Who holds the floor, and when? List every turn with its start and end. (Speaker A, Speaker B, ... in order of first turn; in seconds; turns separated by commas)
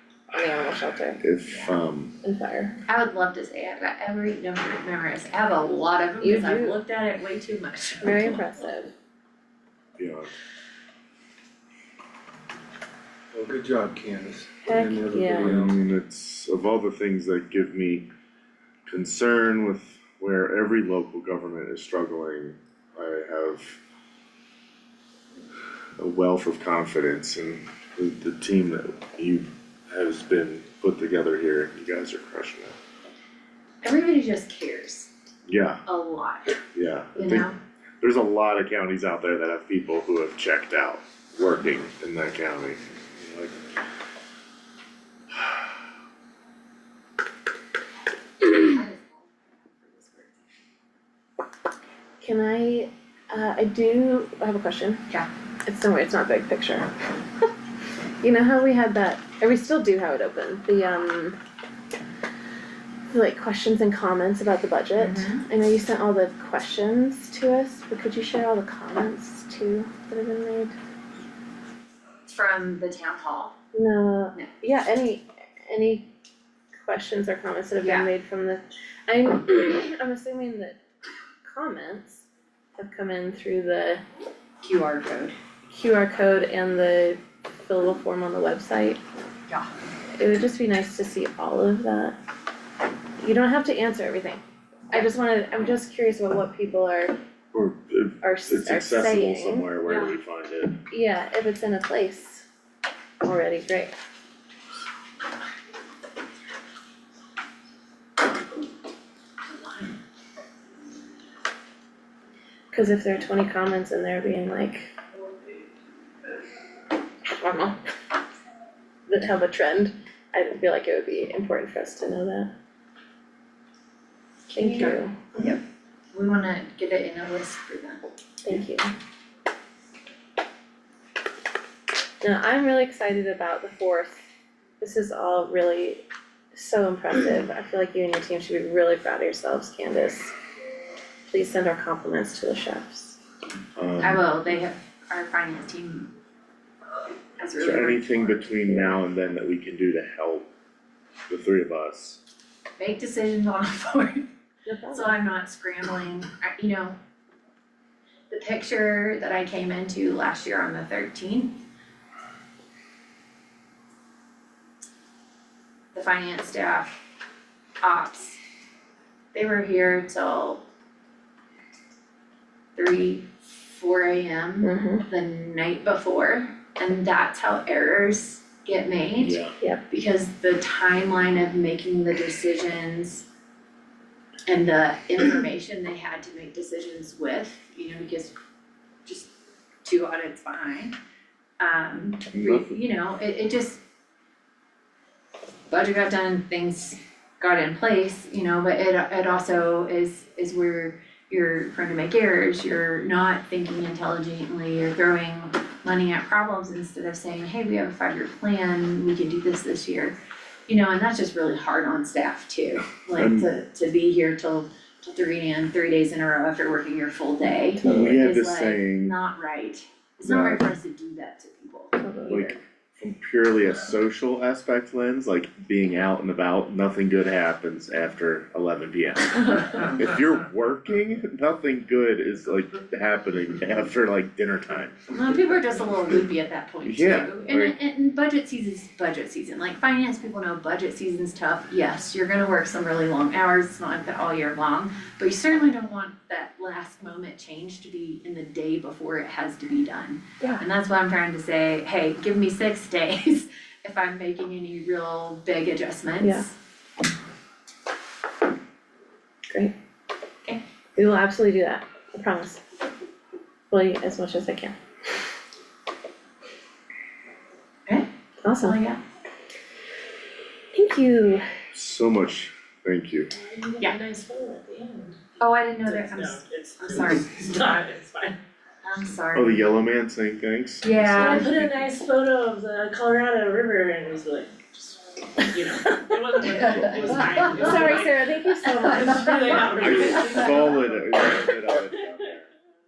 Speaker A: 0.3-1.2, Speaker B: 1.2-2.2, Speaker A: 2.2-2.8, Speaker C: 2.9-8.4, Speaker A: 6.2-6.8, Speaker A: 8.0-8.9, Speaker B: 10.0-10.3, Speaker D: 13.3-15.8, Speaker A: 14.6-15.6, Speaker B: 15.4-18.1, Speaker B: 18.9-23.8, Speaker B: 26.0-32.8, Speaker C: 33.8-35.1, Speaker B: 35.5-35.8, Speaker C: 35.9-36.6, Speaker B: 36.8-37.5, Speaker C: 37.2-37.6, Speaker B: 38.0-43.6, Speaker B: 45.3-45.6, Speaker C: 48.4-50.4, Speaker A: 52.2-55.0, Speaker A: 55.7-56.9, Speaker A: 58.2-61.4, Speaker A: 63.1-70.8, Speaker C: 65.0-65.5, Speaker C: 72.3-73.6, Speaker A: 73.7-76.1, Speaker A: 76.8-80.8, Speaker C: 77.8-78.1, Speaker A: 81.4-82.2, Speaker A: 82.8-84.0, Speaker C: 84.6-85.4, Speaker A: 85.7-89.0, Speaker A: 90.2-92.2, Speaker A: 93.2-97.2, Speaker B: 97.5-100.8, Speaker A: 98.2-99.7, Speaker A: 100.9-102.5, Speaker A: 103.2-103.9, Speaker C: 109.5-109.9, Speaker A: 112.7-114.9, Speaker A: 117.3-117.8, Speaker A: 119.1-122.5, Speaker A: 124.5-125.2, Speaker C: 124.6-125.6, Speaker C: 126.1-128.0, Speaker A: 128.4-128.9, Speaker A: 132.2-134.2, Speaker A: 134.8-140.3, Speaker A: 141.3-143.2, Speaker B: 143.8-144.2, Speaker C: 144.0-146.1, Speaker C: 147.4-148.5, Speaker B: 147.6-150.5, Speaker A: 148.7-148.9, Speaker B: 151.3-152.2, Speaker C: 152.8-154.3, Speaker A: 154.7-155.2, Speaker C: 154.9-157.0, Speaker C: 158.3-161.6, Speaker C: 165.9-167.0, Speaker C: 167.8-168.4, Speaker C: 169.3-170.6, Speaker C: 172.8-183.3, Speaker A: 174.6-175.1, Speaker B: 179.2-179.5, Speaker C: 184.5-188.4, Speaker C: 189.1-189.3, Speaker C: 189.8-191.0, Speaker C: 191.6-193.8, Speaker B: 192.3-192.7, Speaker C: 195.7-210.2, Speaker C: 210.7-222.0, Speaker B: 213.1-213.5, Speaker A: 217.8-218.2, Speaker B: 217.8-219.2, Speaker B: 220.2-220.7, Speaker A: 222.0-222.6, Speaker B: 222.3-235.0, Speaker C: 235.1-256.5, Speaker B: 236.8-237.7, Speaker A: 256.2-256.5, Speaker A: 261.0-262.6, Speaker A: 263.7-264.8, Speaker A: 268.4-268.8, Speaker C: 268.6-269.0, Speaker A: 270.7-271.4, Speaker B: 271.7-273.3, Speaker E: 273.4-275.2, Speaker C: 275.4-277.5, Speaker E: 275.8-278.4, Speaker C: 278.8-279.6, Speaker B: 279.3-281.7, Speaker C: 280.8-281.5, Speaker E: 281.1-291.9, Speaker C: 286.4-288.0, Speaker A: 287.5-289.6, Speaker B: 289.8-292.5